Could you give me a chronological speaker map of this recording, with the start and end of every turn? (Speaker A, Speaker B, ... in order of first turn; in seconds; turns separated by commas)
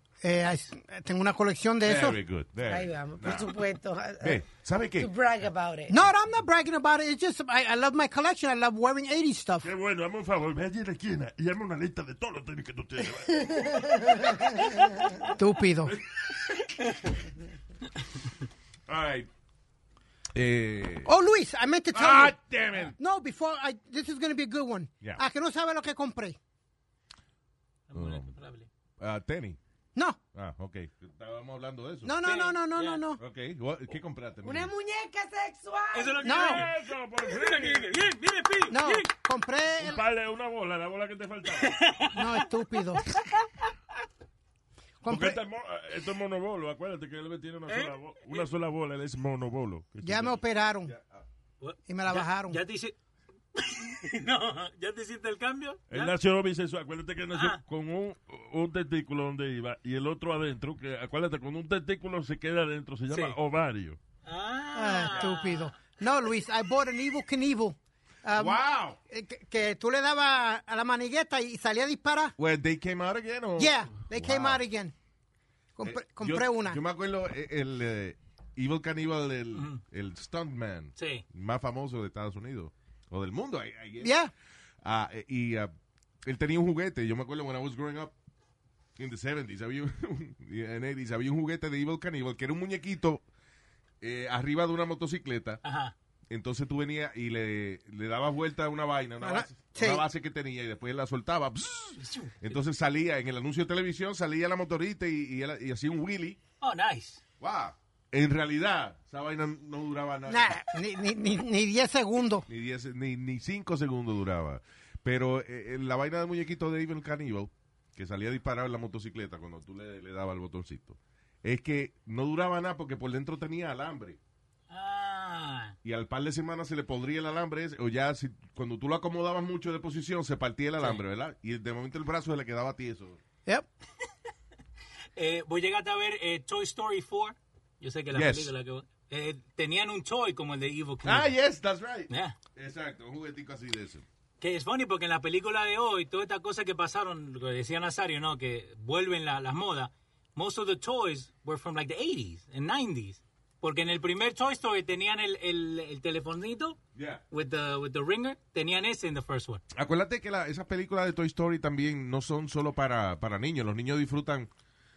Speaker A: 0.2-2.2, Speaker B: 1.8-3.5, Speaker C: 2.7-4.4, Speaker B: 4.2-5.1, Speaker C: 5.0-6.0, Speaker A: 5.9-9.7, Speaker D: 9.6-15.3, Speaker C: 13.5-14.3, Speaker A: 15.3-15.9, Speaker D: 15.8-16.6, Speaker B: 18.9-19.2, Speaker B: 20.3-21.1, Speaker A: 21.0-26.4, Speaker B: 21.9-22.9, Speaker E: 27.9-28.7, Speaker B: 27.9-28.3, Speaker B: 29.0-29.6, Speaker A: 29.9-30.2, Speaker B: 30.3-32.1, Speaker A: 32.0-33.2, Speaker E: 32.2-33.0, Speaker B: 33.2-34.7, Speaker C: 34.4-36.3, Speaker E: 35.9-39.1, Speaker A: 36.2-36.7, Speaker D: 36.3-38.0, Speaker A: 38.7-40.1, Speaker D: 39.8-41.8, Speaker E: 41.6-42.4, Speaker A: 42.1-43.0, Speaker E: 43.1-43.5, Speaker A: 45.0-45.4, Speaker D: 45.1-50.4, Speaker E: 47.7-48.5, Speaker A: 50.0-50.9, Speaker B: 50.8-51.2, Speaker E: 51.6-52.9, Speaker A: 51.9-52.6, Speaker E: 53.5-56.1, Speaker D: 55.9-64.0, Speaker E: 57.3-57.6, Speaker E: 63.1-63.4, Speaker E: 64.2-65.7, Speaker A: 64.7-72.3, Speaker B: 68.3-69.0, Speaker B: 72.4-74.6, Speaker A: 73.6-74.9, Speaker A: 75.8-76.8, Speaker B: 75.8-84.1, Speaker E: 79.5-79.8, Speaker E: 81.0-81.2, Speaker A: 84.0-84.3, Speaker B: 84.8-88.1, Speaker B: 89.0-93.2, Speaker B: 94.0-95.6, Speaker E: 95.6-95.9, Speaker B: 96.3-106.4, Speaker A: 99.2-100.0, Speaker E: 102.0-102.3, Speaker E: 106.6-107.2, Speaker B: 107.4-110.6, Speaker A: 110.3-112.5, Speaker B: 112.5-124.2, Speaker E: 124.7-125.8, Speaker B: 125.8-133.2, Speaker E: 135.2-141.3, Speaker B: 138.1-138.5, Speaker B: 141.0-144.0, Speaker E: 142.1-142.3, Speaker E: 144.4-156.8, Speaker B: 156.9-157.2, Speaker E: 157.3-159.6, Speaker B: 159.7-164.5